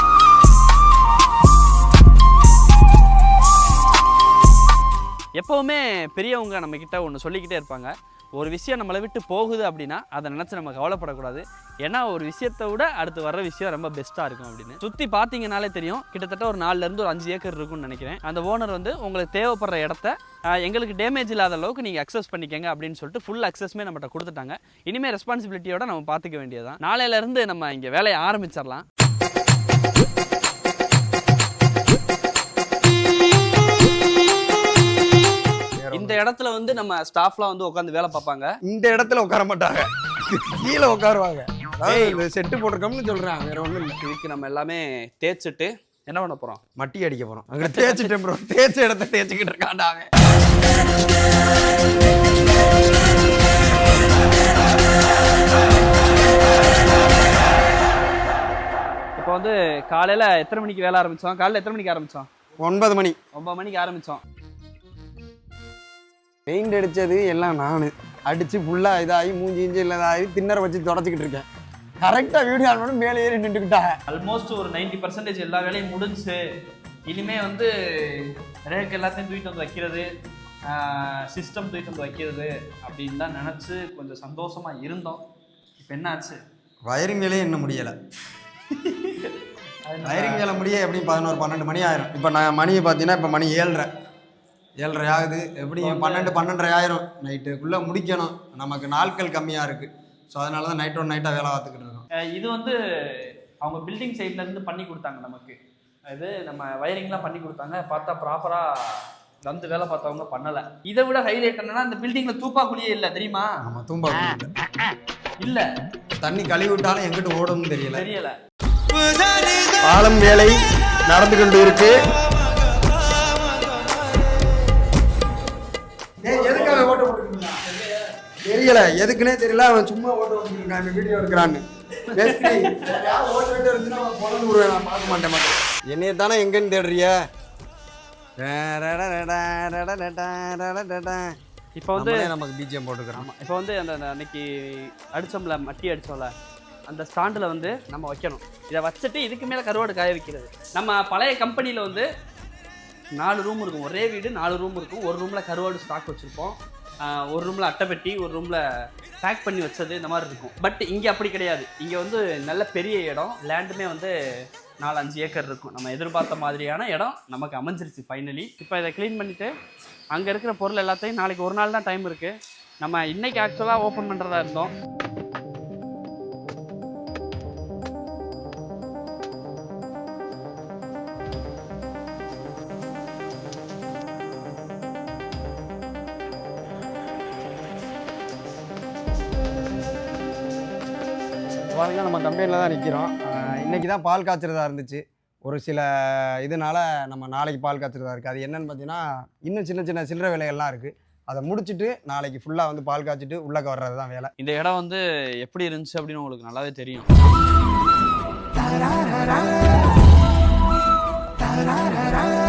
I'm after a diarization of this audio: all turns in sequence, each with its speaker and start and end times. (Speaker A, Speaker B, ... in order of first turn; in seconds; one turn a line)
Speaker A: 5.4-28.8
Speaker B: 35.8-36.2
Speaker A: 35.9-38.6
Speaker B: 38.7-44.0
Speaker A: 41.8-42.2
Speaker A: 44.0-46.6
Speaker B: 46.8-50.1
Speaker A: 47.6-48.1
Speaker A: 59.2-62.3
Speaker B: 62.6-63.2
Speaker A: 63.3-64.2
Speaker B: 66.5-71.5
Speaker B: 72.0-74.0
Speaker A: 74.1-76.4
Speaker A: 77.1-80.1
Speaker A: 80.7-85.2
Speaker A: 85.8-86.4
Speaker B: 86.9-88.0
Speaker A: 89.0-89.3
Speaker A: 89.9-90.5
Speaker B: 90.0-93.9
Speaker B: 94.8-102.0
Speaker A: 95.8-96.4
Speaker A: 102.2-113.5
Speaker B: 113.6-114.5
Speaker A: 115.4-115.7
Speaker B: 116.2-118.1
Speaker A: 117.9-118.4
Speaker B: 119.7-122.0
Speaker B: 126.2-127.9
Speaker B: 128.4-137.2
Speaker A: 132.1-132.7
Speaker B: 138.4-141.4
Speaker A: 141.8-142.3
Speaker B: 142.0-143.3
Speaker A: 143.2-146.3
Speaker A: 146.9-152.1
Speaker A: 153.2-158.6
Speaker A: 159.2-164.1
Speaker A: 164.8-169.5
Speaker A: 170.1-174.7
Speaker B: 191.7-204.3
Speaker A: 204.4-207.1